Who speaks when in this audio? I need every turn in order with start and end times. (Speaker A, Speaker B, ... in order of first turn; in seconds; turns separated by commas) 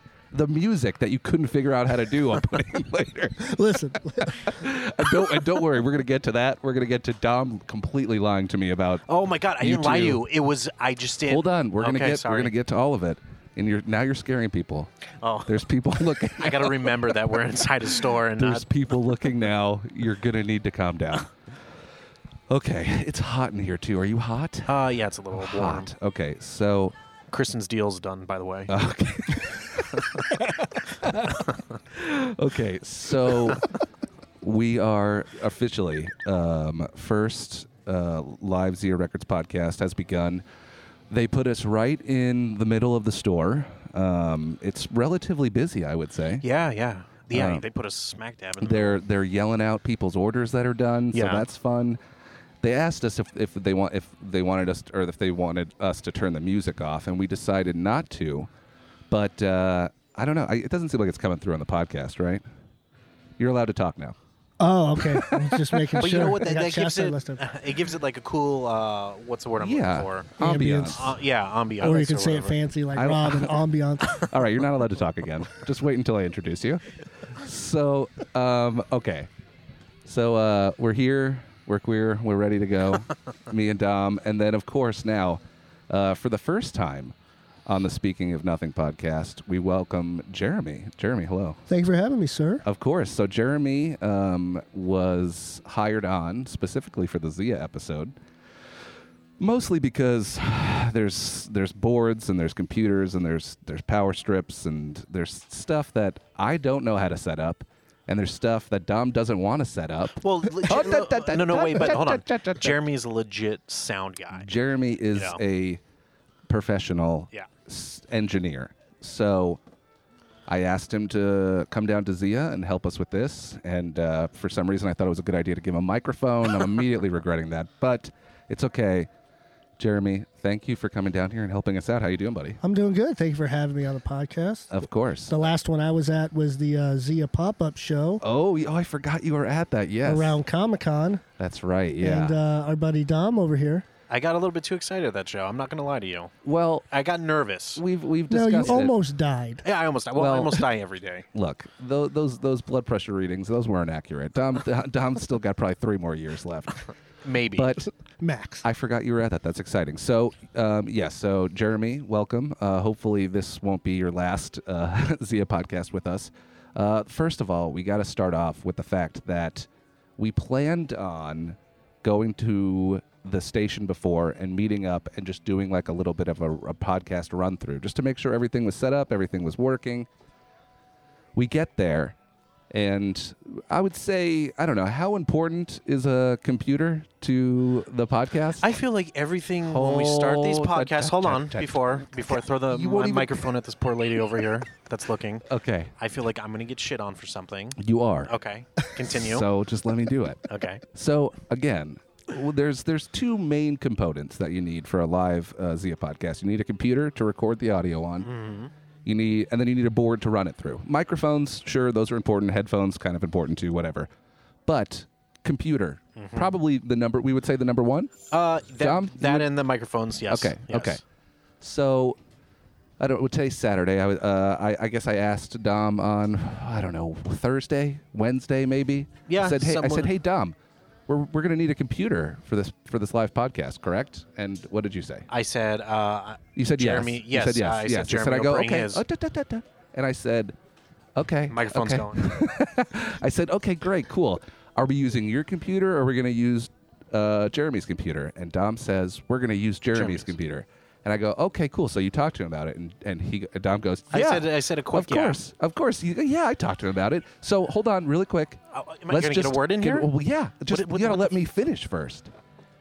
Speaker A: 0.3-3.5, Speaker B: 3.4-4.5, Speaker A: 4.2-9.0, Speaker C: 9.1-12.5, Speaker A: 9.6-10.2, Speaker A: 11.3-14.9, Speaker C: 15.2-19.4, Speaker A: 15.5-17.1, Speaker A: 18.3-21.3, Speaker A: 22.5-24.7, Speaker C: 24.7-25.9, Speaker A: 25.4-26.9, Speaker C: 27.3-28.8, Speaker A: 28.7-33.7, Speaker A: 34.4-40.4, Speaker A: 41.1-46.4, Speaker C: 46.4-49.0, Speaker A: 47.3-47.6, Speaker A: 48.6-52.0, Speaker C: 51.1-51.5, Speaker A: 52.6-58.5, Speaker A: 59.1-62.4, Speaker A: 63.4-64.2, Speaker B: 64.6-67.5, Speaker A: 65.2-66.2, Speaker C: 66.0-72.6, Speaker A: 69.6-71.1, Speaker B: 70.4-71.1, Speaker B: 71.8-74.3, Speaker A: 73.0-73.6, Speaker A: 74.2-79.3, Speaker A: 80.0-87.1, Speaker A: 87.7-91.6, Speaker B: 91.7-92.6, Speaker A: 92.6-98.2, Speaker A: 99.4-112.8, Speaker C: 110.2-114.5, Speaker A: 114.3-115.8, Speaker C: 115.1-115.4, Speaker A: 116.5-119.6, Speaker A: 120.5-129.1, Speaker A: 129.8-132.6, Speaker B: 132.6-134.7, Speaker A: 134.7-135.3, Speaker B: 135.3-138.2, Speaker A: 138.2-140.4, Speaker B: 140.1-141.2, Speaker A: 141.4-142.4, Speaker B: 142.0-143.9, Speaker C: 144.1-146.3, Speaker A: 146.4-146.9, Speaker C: 146.9-147.8, Speaker A: 147.8-148.9, Speaker B: 148.3-149.7, Speaker C: 149.6-151.3, Speaker A: 150.2-150.6, Speaker A: 151.3-156.9, Speaker C: 157.2-157.8, Speaker A: 157.6-157.9, Speaker B: 158.2-158.7, Speaker A: 158.6-180.1, Speaker A: 181.3-182.2, Speaker A: 182.7-188.7, Speaker C: 188.6-195.5, Speaker A: 189.6-193.5, Speaker A: 195.5-195.9, Speaker C: 196.0-199.5, Speaker A: 197.8-198.3, Speaker A: 199.1-208.3, Speaker C: 200.5-200.8, Speaker C: 208.2-208.7, Speaker A: 209.1-214.1, Speaker A: 214.7-218.1, Speaker C: 216.2-216.5, Speaker C: 218.3-221.0, Speaker A: 218.8-219.5, Speaker A: 220.3-221.0, Speaker A: 221.6-222.2, Speaker A: 223.0-230.6, Speaker C: 229.3-230.2, Speaker A: 231.1-235.3, Speaker C: 235.3-239.0, Speaker A: 236.6-240.6, Speaker A: 241.2-262.3, Speaker C: 241.5-242.4, Speaker C: 249.9-250.3, Speaker C: 254.1-255.4, Speaker C: 258.7-260.1, Speaker C: 260.7-261.3